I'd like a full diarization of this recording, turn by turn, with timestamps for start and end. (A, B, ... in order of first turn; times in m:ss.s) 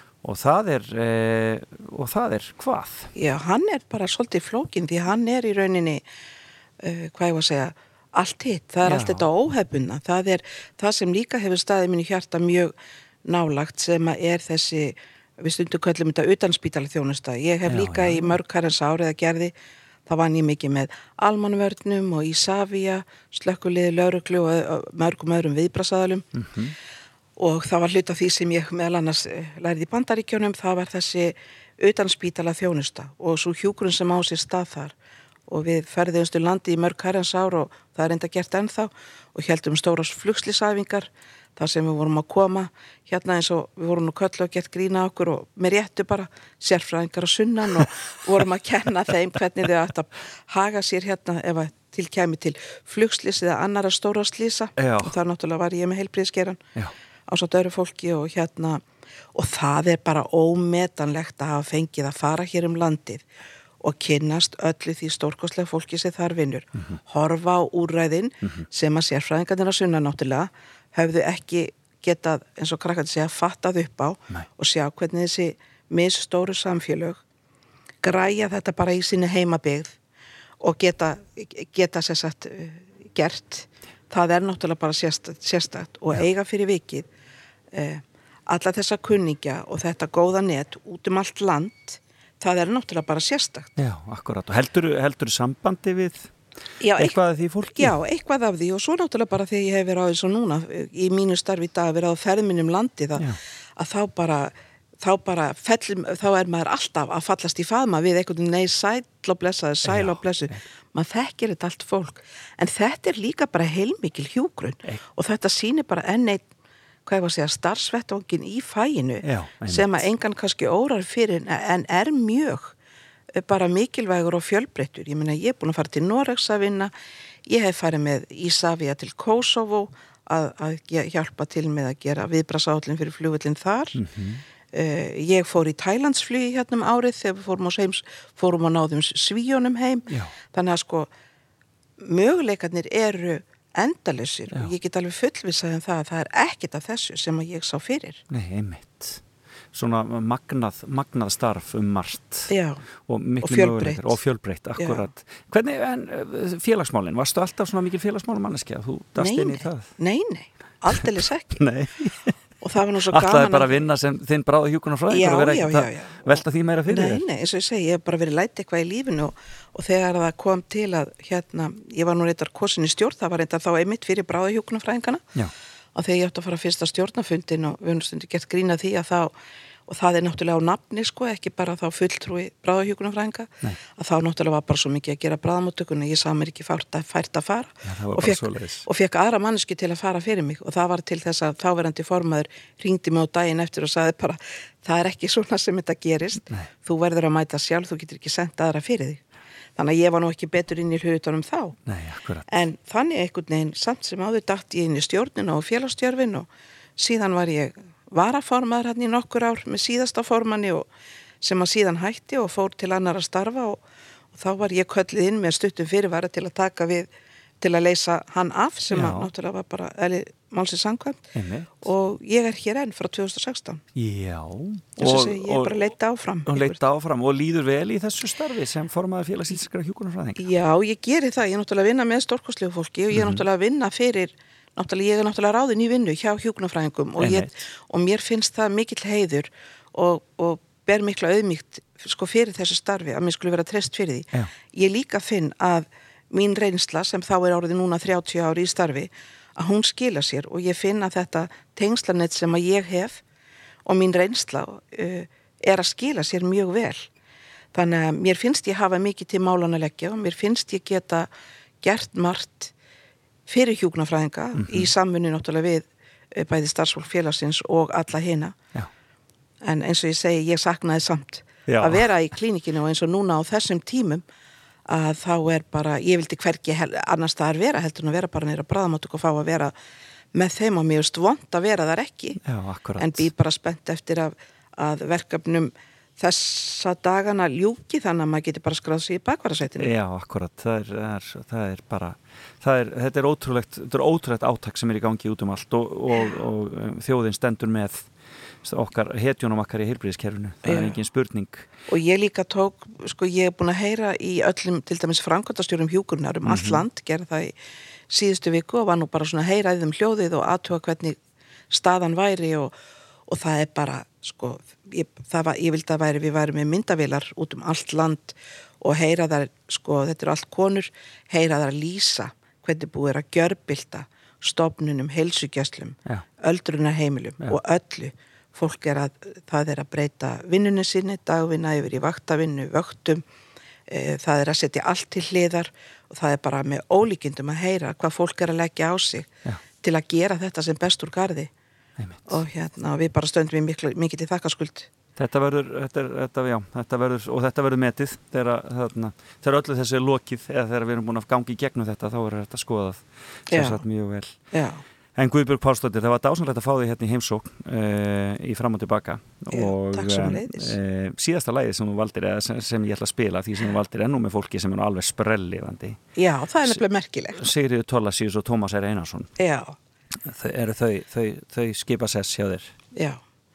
0:00.2-0:03.1 A
0:03.2-0:06.0 B
0:06.8-0:12.8 B
0:08.8-0:09.2 A
0:13.3-0:19.5 B
0:17.7-0:18.4 A
0:20.1-0:26.2 B
0:26.4-0:26.7 A
0:27.4-0:34.9 B
0:35.5-0:56.6 B
0:54.8-0:55.1 A
0:57.3-0:58.8 B
0:59.4-1:03.2 B
1:03.8-1:17.2 B
1:06.8-1:07.0 A
1:18.0-1:20.0 B
1:20.6-1:27.1 B
1:27.7-1:33.7 B
1:33.8-1:36.3 A
1:36.8-1:37.2 B
1:37.0-1:38.0 A
1:37.7-1:43.2 B
1:43.8-1:56.5 B
1:49.8-1:50.6 A
1:57.1-2:02.7 B
1:59.2-2:00.0 A
2:03.3-2:06.9 B
2:07.5-2:14.0 B
2:14.0-2:14.4 A
2:14.7-2:21.1 B
2:20.1-2:20.3 A
2:22.0-2:28.2 B
2:28.3-2:29.2 A
2:29.7-2:32.5 A
2:32.5-2:32.8 B
2:33.1-2:39.9 A
2:33.4-2:34.2 B
2:34.8-2:35.1 B
2:39.2-2:41.6 B
2:41.5-2:42.3 A
2:42.6-2:43.8 B
2:43.1-2:47.2 A
2:45.1-2:55.2 B
2:56.0-2:59.3 B
2:59.9-3:19.2 B
3:07.8-3:08.9 A
3:19.8-3:21.8 B
3:21.9-3:22.5 A
3:22.5-3:30.9 B
3:31.4-3:33.8 B
3:34.3-3:37.1 B
3:37.6-3:41.3 B
3:38.9-3:39.3 A
3:41.4-3:41.9 A
3:41.8-3:43.8 B
3:44.0-3:45.8 A
3:45.0-3:46.8 B
3:46.5-3:50.4 A
3:50.4-4:13.2 B
3:53.1-3:53.4 A
3:57.2-3:57.5 A
4:13.9-4:17.1 B
4:17.7-4:21.3 B
4:21.8-4:22.7 B
4:23.5-4:28.6 B
4:24.6-4:24.9 A
4:29.6-4:34.2 B
4:31.7-4:32.0 A
4:34.9-4:39.7 B
4:40.3-4:42.4 B
4:42.4-4:43.3 A
4:43.0-4:49.9 B
4:49.8-4:58.1 A
4:58.6-5:01.7 A
5:00.6-5:00.9 B
5:01.9-5:07.5 B
5:06.5-5:06.8 A
5:08.1-5:11.2 B
5:11.7-5:12.7 B
5:13.3-5:33.2 B
5:33.9-5:39.3 B
5:39.8-5:41.5 B
5:42.0-5:42.4 A
5:42.3-5:44.9 B
5:45.2-5:54.4 A
5:53.5-5:53.8 B
5:54.5-5:54.8 B
5:55.2-6:06.0 A
5:59.5-6:00.7 B
6:06.2-6:07.5 B
6:07.4-6:09.3 A
6:09.4-6:09.8 B
6:10.3-6:12.8 A
6:13.0-6:13.2 B